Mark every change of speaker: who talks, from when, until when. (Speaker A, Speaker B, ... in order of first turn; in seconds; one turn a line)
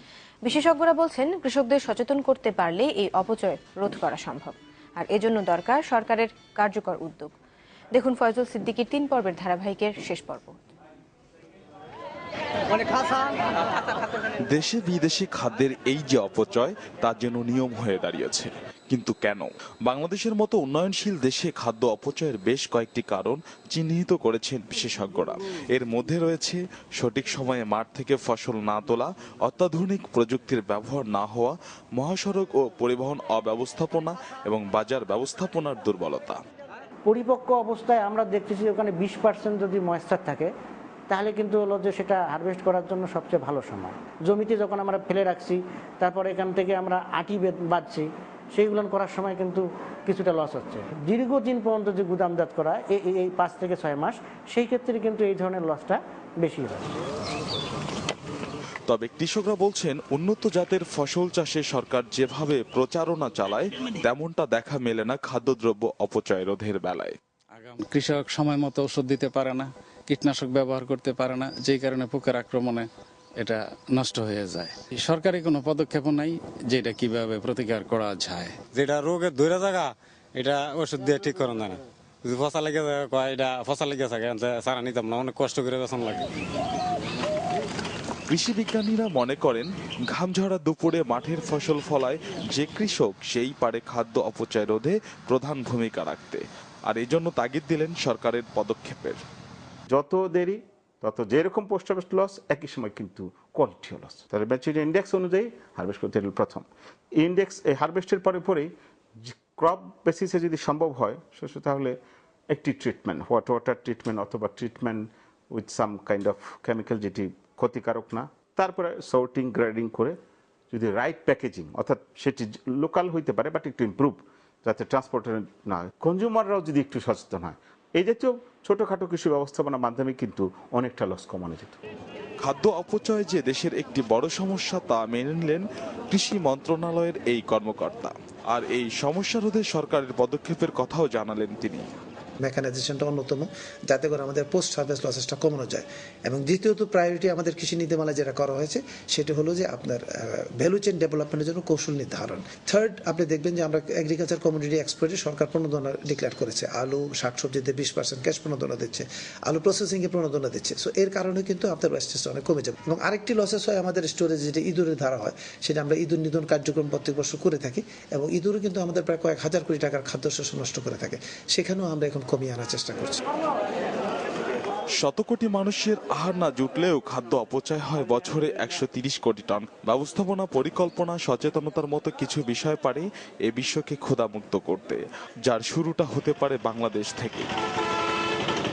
Speaker A: 0.4-7.3
Speaker A: 7.9-10.6
Speaker B: 14.5-36.4
Speaker C: 37.0-40.5
Speaker C: 41.1-56.9
Speaker B: 58.9-67.1
Speaker D: 67.5-72.9
Speaker D: 73.4-78.7
Speaker E: 78.7-86.3
Speaker B: 88.3-99.2
Speaker F: 99.9-106.7
Speaker F: 107.2-108.7
Speaker F: 109.2-112.0
Speaker F: 112.5-120.2
Speaker F: 120.7-131.8
Speaker B: 132.4-141.8
Speaker G: 142.4-173.2
Speaker B: 175.0-187.5